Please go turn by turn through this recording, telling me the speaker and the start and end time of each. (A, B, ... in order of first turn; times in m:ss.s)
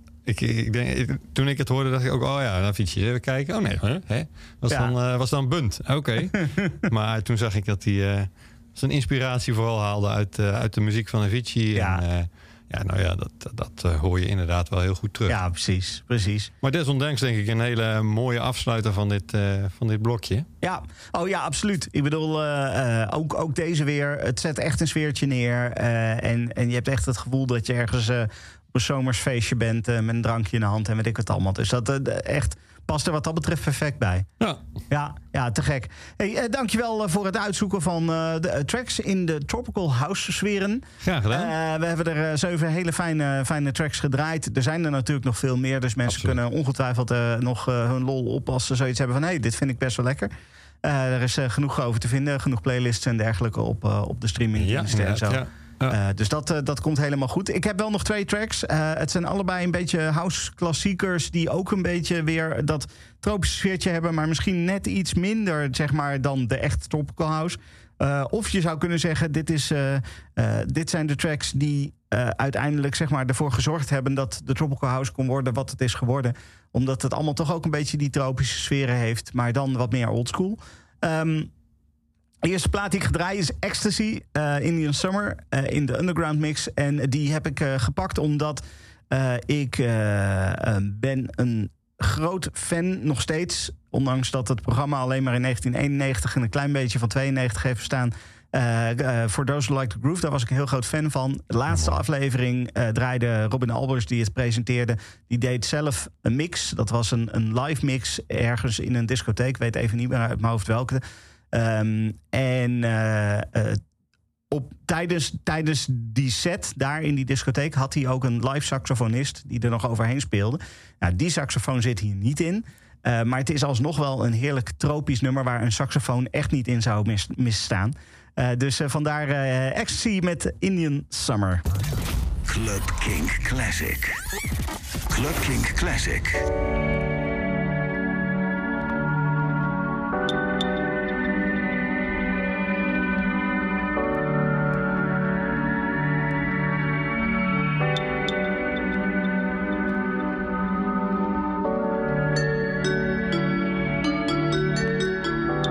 0:00.2-0:15.4 A
0:06.4-0:06.7 B
0:11.7-0:12.0 B
0:15.3-0:16.5 B
0:16.6-0:20.5 A
0:20.6-0:34.3 B
0:34.9-0:50.3 B
0:41.0-0:41.5 A
0:46.1-0:46.4 A
0:50.8-1:21.5 B
0:54.6-0:56.0 A
1:22.4-1:51.0 B
1:41.7-1:42.0 A
1:51.5-1:53.8 B
1:54.5-2:11.6 B
2:12.5-2:14.2 C
2:15.1-2:16.4 C